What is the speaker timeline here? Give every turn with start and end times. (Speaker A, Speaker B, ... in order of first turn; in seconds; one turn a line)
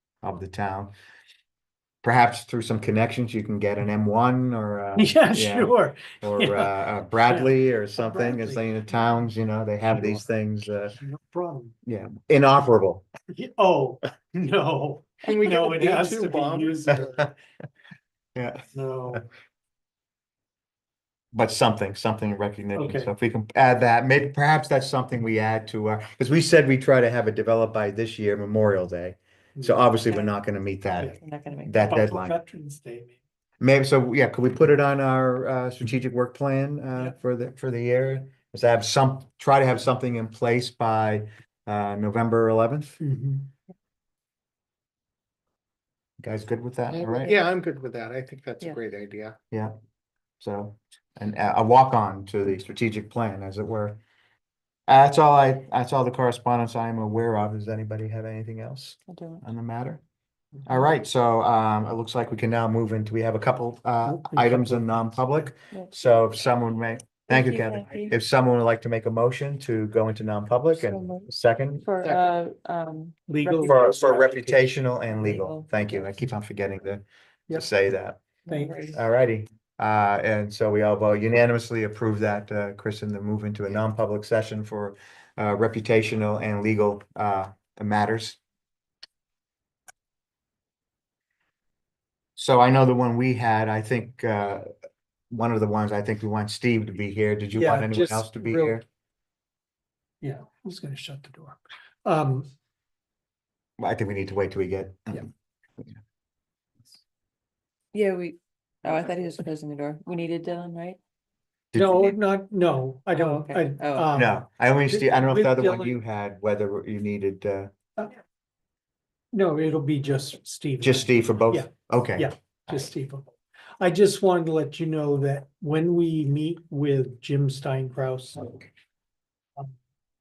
Speaker A: 0.2-0.9
Speaker A: 2.0-10.9
Speaker B: 4.9-6.7
Speaker B: 7.2-8.7
Speaker B: 10.9-11.7
Speaker A: 11.8-13.1
Speaker B: 13.3-17.3
Speaker C: 15.2-17.2
Speaker A: 16.9-17.2
Speaker A: 18.3-19.2
Speaker B: 18.7-19.3
Speaker A: 21.3-32.3
Speaker B: 22.7-23.1
Speaker B: 29.6-29.9
Speaker D: 30.1-30.3
Speaker D: 31.0-31.8
Speaker B: 31.8-33.2
Speaker A: 33.6-43.0
Speaker B: 43.0-43.5
Speaker A: 46.2-47.3
Speaker C: 46.9-49.4
Speaker A: 49.5-49.8
Speaker A: 50.4-54.0
Speaker A: 54.9-60.0
Speaker D: 59.0-59.4
Speaker A: 60.6-71.9
Speaker B: 64.0-65.5
Speaker D: 65.7-66.2
Speaker D: 67.3-68.1
Speaker D: 70.7-71.3
Speaker D: 71.8-73.8
Speaker B: 73.3-74.8
Speaker A: 73.6-78.2
Speaker D: 75.1-76.1
Speaker D: 78.4-79.0
Speaker B: 78.5-79.0
Speaker A: 78.9-88.4
Speaker A: 92.3-94.7
Speaker A: 95.3-98.8
Speaker B: 97.5-98.8
Speaker B: 100.2-102.5
Speaker A: 103.8-106.0
Speaker D: 107.9-111.0
Speaker A: 111.7-112.1
Speaker B: 111.7-116.0
Speaker D: 113.1-114.1
Speaker A: 114.1-117.7
Speaker B: 119.3-128.7
Speaker A: 120.8-122.9